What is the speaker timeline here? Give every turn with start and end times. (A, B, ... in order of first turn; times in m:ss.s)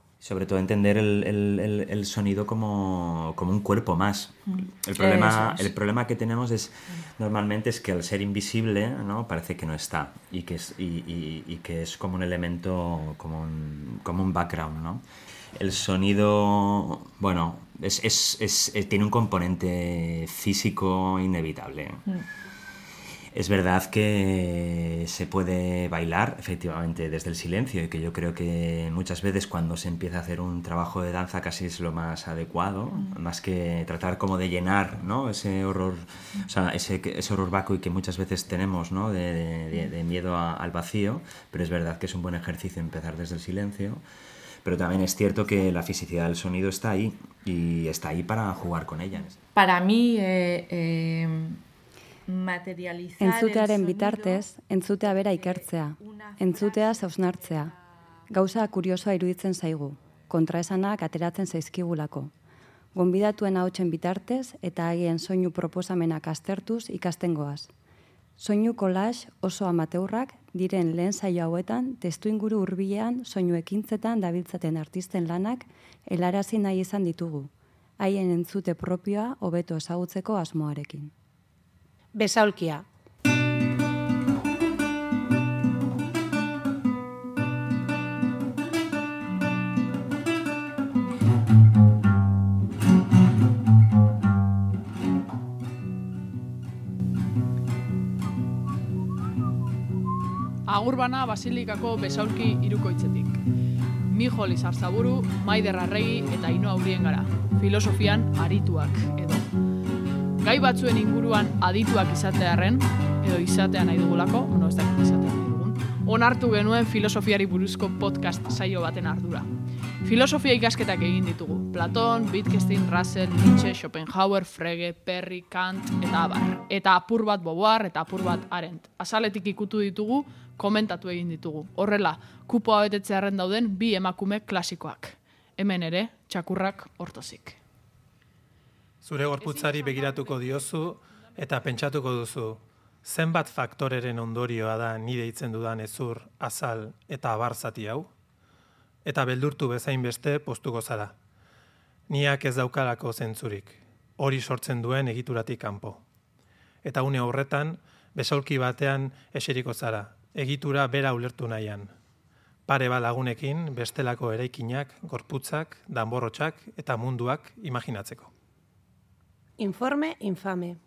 0:00.2-0:22.1 A
0:04.5-0:05.7 B
0:23.3-0:44.0 A
0:44.6-0:49.4 A
0:49.5-0:51.6 B
0:52.3-0:54.5 B
0:53.2-0:57.7 C
0:55.2-0:57.2 B
0:58.3-1:02.3 C
1:02.9-1:07.7 C
1:08.4-1:21.1 C
1:22.1-1:22.8 D
1:40.7-1:43.4 E
1:44.1-1:49.5 E
1:50.4-1:59.5 E
2:00.0-2:17.6 E
2:19.0-2:28.1 F
2:19.4-2:20.5 E
2:29.0-2:31.1 F
2:32.1-2:36.0 F
2:36.8-2:41.9 F
2:42.7-2:48.3 F
2:49.6-2:50.8 D